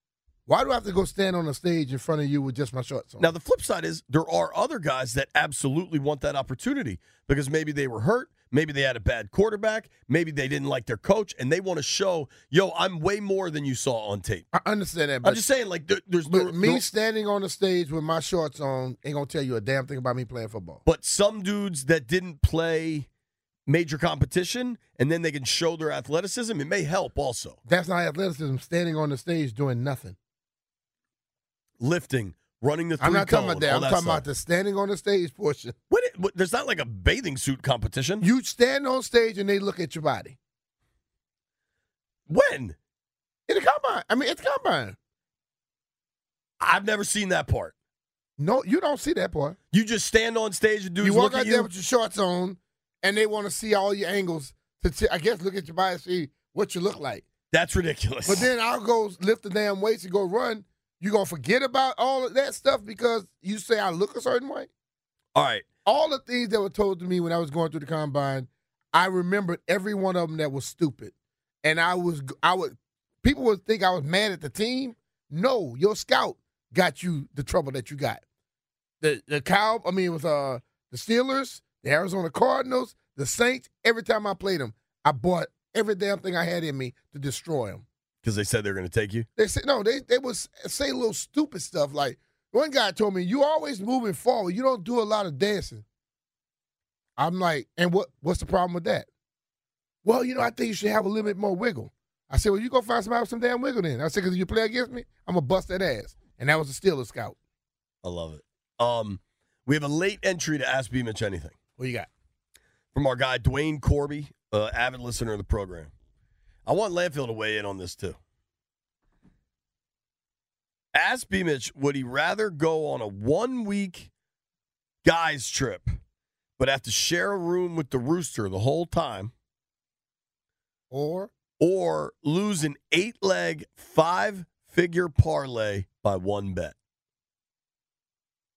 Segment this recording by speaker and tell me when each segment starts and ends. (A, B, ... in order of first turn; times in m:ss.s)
0:00.5-0:03.3 A
0:03.2-0:14.5 B
0:14.5-0:15.4 A
0:15.2-0:16.8 B
0:16.3-0:20.8 A
0:20.9-0:23.1 B
0:23.7-0:27.6 B
0:27.7-0:30.2 A
0:31.8-0:34.2 B
0:33.0-0:35.8 A
0:35.9-0:38.3 B
0:38.2-0:40.4 A
0:42.3-0:42.8 B
0:43.5-0:45.0 A
0:46.6-0:47.7 B
0:48.4-0:49.6 A
0:49.7-0:51.7 B
0:51.0-0:57.3 A
0:57.5-0:58.5 B
0:58.3-1:04.7 A
1:05.4-1:05.7 B
1:05.9-1:18.2 A
1:19.0-1:27.8 A
1:28.2-1:29.3 B
1:29.4-1:35.8 A
1:37.2-1:39.1 A
1:40.0-1:47.4 A
1:48.0-1:51.6 B
1:51.8-1:52.1 A
1:52.9-1:55.9 B
1:56.7-1:58.2 B
2:00.9-2:04.1 B
2:05.0-2:06.0 B
2:06.6-2:09.3 B
2:10.9-2:11.3 A
2:11.6-2:16.8 B